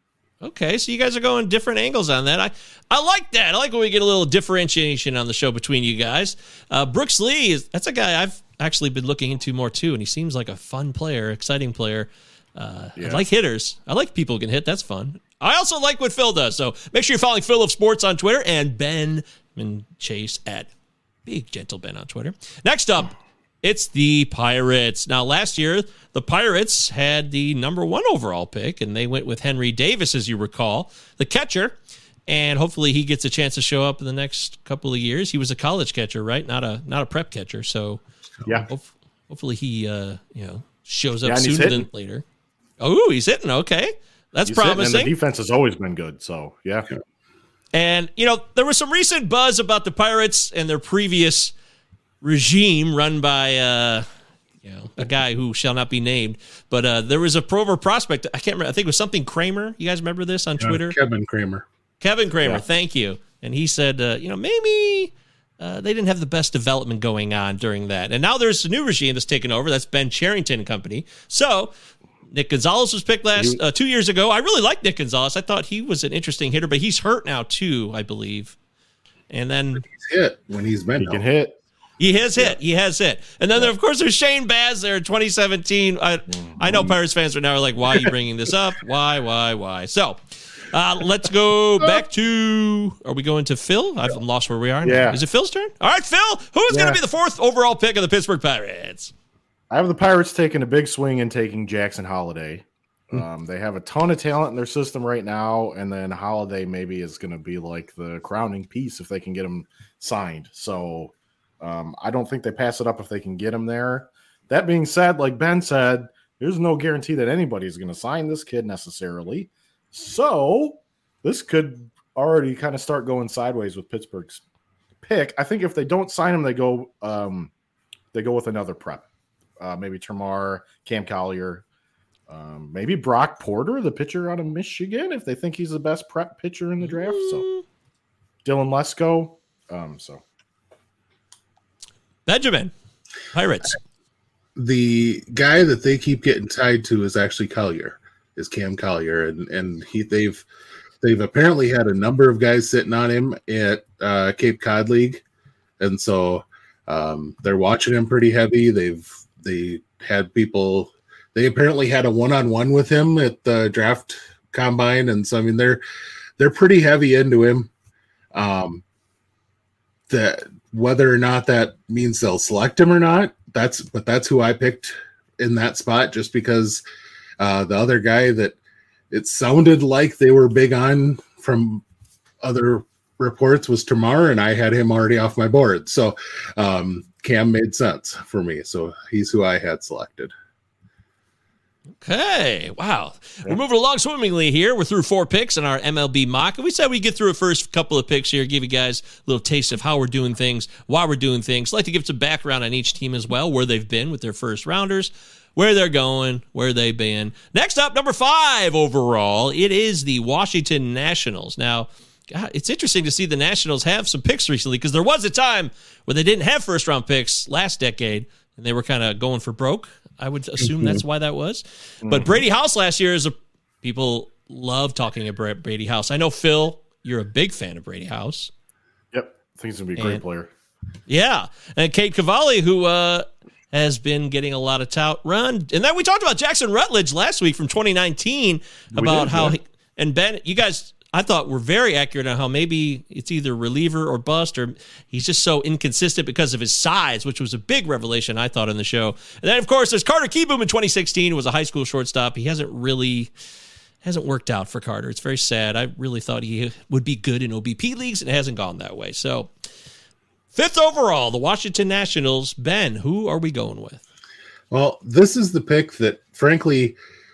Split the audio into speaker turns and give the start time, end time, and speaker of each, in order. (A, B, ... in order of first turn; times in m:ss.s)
0:00.4-0:20.7 A
0:13.0-0:13.2 B
0:21.3-0:38.0 A
0:38.7-0:42.2 A
0:41.2-0:41.9 B
0:42.8-0:45.1 A
0:44.5-0:46.9 B
0:47.7-0:51.5 A
0:52.2-0:54.1 A
0:54.6-1:01.0 A
1:00.6-1:01.7 C
1:02.0-1:11.7 A
1:12.3-1:18.6 A
1:19.3-1:19.8 A
1:19.9-1:21.2 C
1:21.0-1:21.6 B
1:22.0-1:30.2 A
1:26.3-1:27.0 B
1:30.7-1:39.1 A
1:34.8-1:35.2 B
1:36.7-1:37.0 B
1:39.7-2:04.4 B
2:05.0-2:07.5 B
2:08.1-2:09.1 B
2:09.6-2:11.6 B
2:12.3-2:17.5 B
2:16.9-2:17.6 A
2:18.4-2:20.2 B
2:22.3-2:22.7 A
2:23.3-2:23.8 A
2:24.6-2:30.5 C
2:31.0-2:35.2 C
2:35.8-2:45.8 C
2:46.4-2:47.7 C
2:48.3-2:48.8 C
2:50.1-2:56.8 C
2:57.4-2:58.6 C
2:59.1-3:01.8 C
3:02.4-3:10.3 C
3:12.0-3:48.5 A
3:40.6-3:41.0 C
3:42.0-3:42.4 B
3:49.1-3:50.5 B
3:50.0-3:50.2 A
3:51.1-4:13.3 A
3:59.0-3:59.6 B
4:14.0-4:19.5 A
4:20.6-4:24.0 A
4:24.7-4:27.0 C